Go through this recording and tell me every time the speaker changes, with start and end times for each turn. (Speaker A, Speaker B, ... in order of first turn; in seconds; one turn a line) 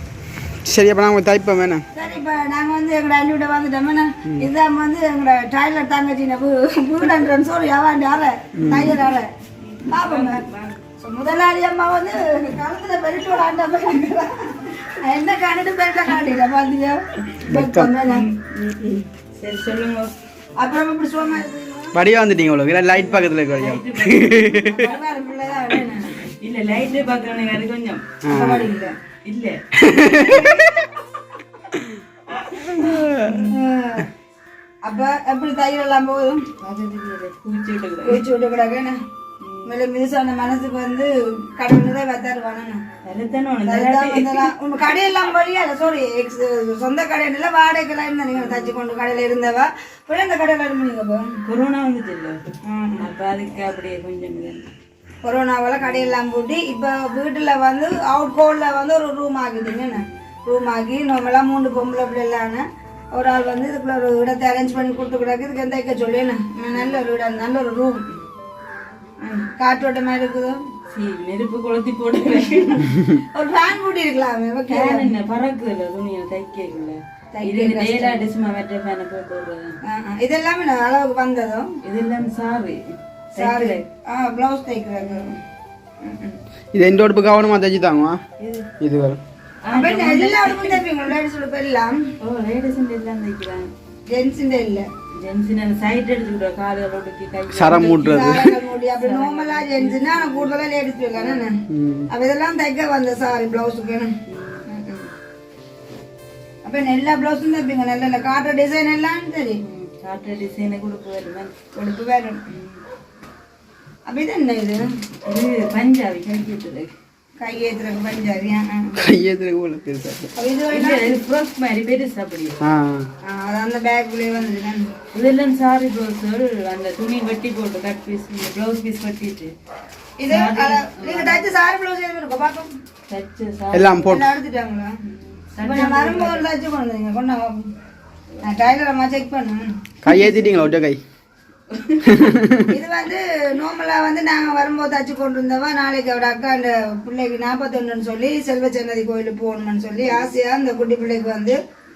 Speaker A: 0.6-1.8
Speaker B: 1.9-9.3
Speaker A: 8.6-9.0
Speaker C: 9.6-10.8
Speaker B: 9.8-10.4
Speaker B: 11.0-18.3
Speaker A: 17.4-17.9
Speaker C: 18.1-18.5
Speaker C: 19.4-20.1
Speaker B: 20.6-21.9
Speaker A: 21.9-24.9
Speaker C: 23.0-24.7
Speaker B: 24.6-26.2
Speaker C: 26.4-28.0
Speaker A: 28.2-28.7
Speaker B: 28.2-28.9
Speaker C: 29.2-29.6
Speaker A: 29.8-30.8
Speaker B: 30.0-30.8
Speaker C: 32.7-33.5
Speaker A: 32.8-33.2
Speaker B: 33.3-34.1
Speaker B: 34.9-36.5
Speaker C: 36.6-38.2
Speaker B: 38.0-39.0
Speaker C: 39.4-39.7
Speaker B: 39.6-42.8
Speaker C: 43.0-44.5
Speaker B: 43.6-51.2
Speaker C: 48.3-48.8
Speaker C: 51.5-52.4
Speaker B: 52.6-53.1
Speaker C: 53.0-54.6
Speaker B: 55.2-68.0
Speaker C: 55.8-56.1
Speaker C: 59.8-60.1
Speaker C: 66.7-67.0
Speaker B: 69.2-70.6
Speaker C: 70.9-73.0
Speaker B: 72.5-75.1
Speaker C: 74.7-79.7
Speaker B: 77.3-78.2
Speaker B: 79.8-81.7
Speaker C: 81.8-82.8
Speaker C: 83.3-83.8
Speaker B: 83.3-85.4
Speaker C: 85.0-85.4
Speaker B: 86.0-86.4
Speaker A: 86.7-88.2
Speaker C: 88.4-88.7
Speaker A: 88.8-89.2
Speaker C: 89.6-90.8
Speaker B: 89.7-92.0
Speaker C: 92.2-93.7
Speaker B: 94.1-94.8
Speaker C: 95.1-100.6
Speaker A: 97.5-98.5
Speaker B: 97.9-101.6
Speaker C: 101.1-101.5
Speaker A: 101.7-102.1
Speaker B: 102.1-104.1
Speaker C: 104.3-104.6
Speaker B: 104.7-105.1
Speaker B: 106.6-109.6
Speaker C: 109.6-111.5
Speaker B: 111.7-112.4
Speaker C: 112.5-112.8
Speaker B: 114.1-114.9
Speaker C: 115.2-116.9
Speaker B: 117.4-119.0
Speaker A: 119.0-120.3
Speaker B: 120.3-121.1
Speaker C: 120.7-122.6
Speaker A: 122.6-123.1
Speaker B: 123.2-124.9
Speaker C: 125.1-129.5
Speaker B: 130.2-132.7
Speaker C: 130.3-131.5
Speaker C: 133.1-134.1
Speaker A: 133.7-134.3
Speaker B: 134.0-134.9
Speaker C: 135.0-136.5
Speaker B: 135.6-137.7
Speaker B: 138.4-139.7
Speaker A: 140.0-141.0
Speaker C: 140.1-140.7
Speaker C: 141.7-142.2
Speaker A: 142.0-142.7
Speaker B: 142.7-151.6